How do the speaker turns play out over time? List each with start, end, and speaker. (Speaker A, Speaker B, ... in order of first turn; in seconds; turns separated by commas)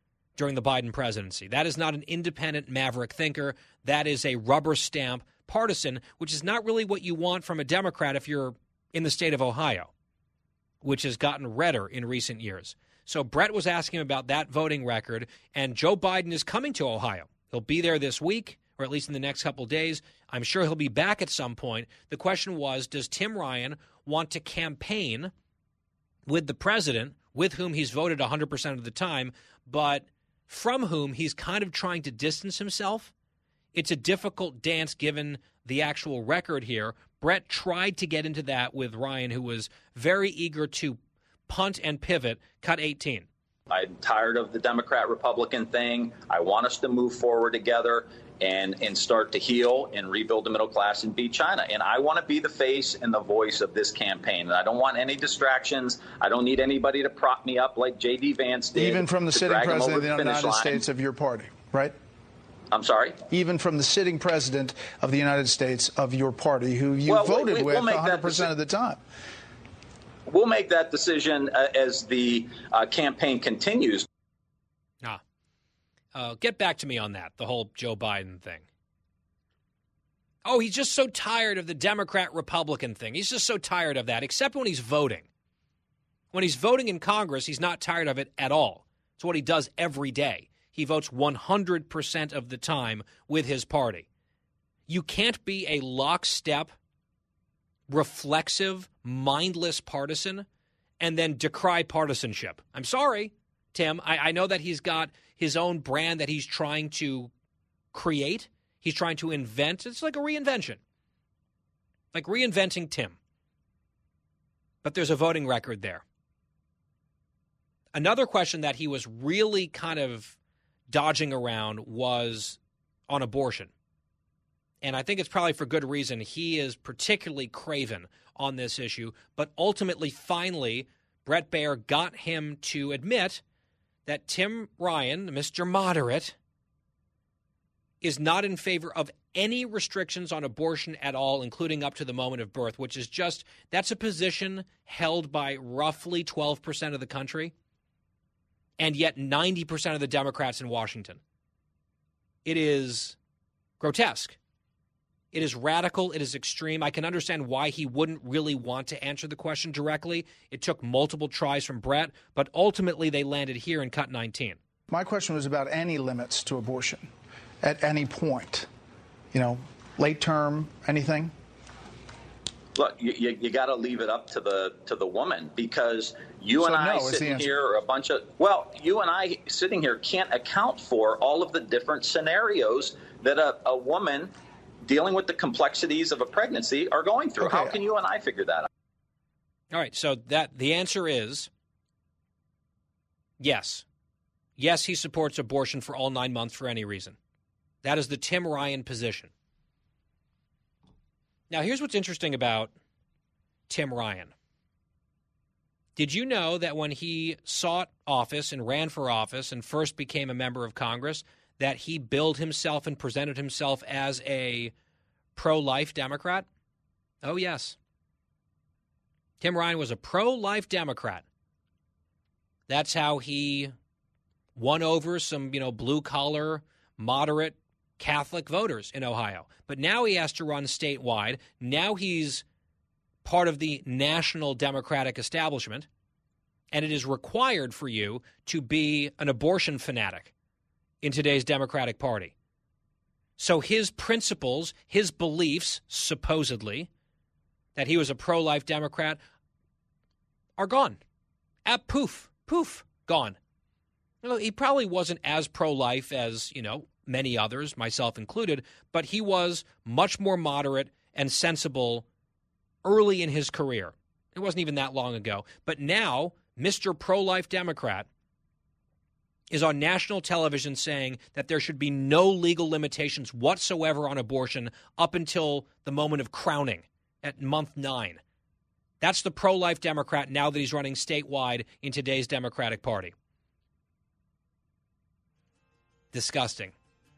Speaker A: 0.3-9.9, Speaker A: 10.8-25.3, Speaker A: 26.3-33.1, Speaker A: 33.7-43.3, Speaker B: 43.7-60.8, Speaker C: 58.7-62.0, Speaker B: 62.7-63.2, Speaker C: 63.3-69.0, Speaker B: 67.0-68.5, Speaker B: 70.2-74.1, Speaker A: 76.1-78.7, Speaker A: 80.4-85.2, Speaker A: 86.3-94.0, Speaker A: 94.9-96.7, Speaker A: 97.9-100.5, Speaker A: 101.0-107.3, Speaker A: 107.9-110.8, Speaker A: 112.1-113.2, Speaker A: 114.8-116.0, Speaker A: 117.9-120.3, Speaker A: 120.9-123.7, Speaker A: 124.8-133.4, Speaker A: 134.1-136.3, Speaker A: 138.0-147.5, Speaker A: 148.8-151.2, Speaker A: 152.4-153.2, Speaker A: 153.8-154.4, Speaker A: 155.3-164.6, Speaker C: 164.9-167.1, Speaker C: 167.6-168.7, Speaker C: 169.3-171.3, Speaker B: 172.7-184.3, Speaker C: 176.5-177.5, Speaker B: 184.8-188.7, Speaker C: 187.4-187.8, Speaker A: 189.7-191.5, Speaker A: 193.4-193.8, Speaker A: 194.6-197.2, Speaker A: 197.8-199.3, Speaker A: 201.5-202.7, Speaker A: 203.7-204.3, Speaker A: 205.9-214.7, Speaker A: 215.3-216.4, Speaker A: 217.2-217.8, Speaker A: 219.4-221.2, Speaker A: 222.7-223.7, Speaker A: 224.6-232.4, Speaker A: 233.2-235.9, Speaker A: 236.7-240.3, Speaker A: 241.0-242.3, Speaker A: 243.4-246.9, Speaker A: 247.8-249.2, Speaker A: 250.6-251.0, Speaker A: 251.6-253.4, Speaker A: 254.2-262.0, Speaker A: 262.8-268.1, Speaker A: 269.5-278.2, Speaker A: 279.0-283.1, Speaker A: 286.1-286.7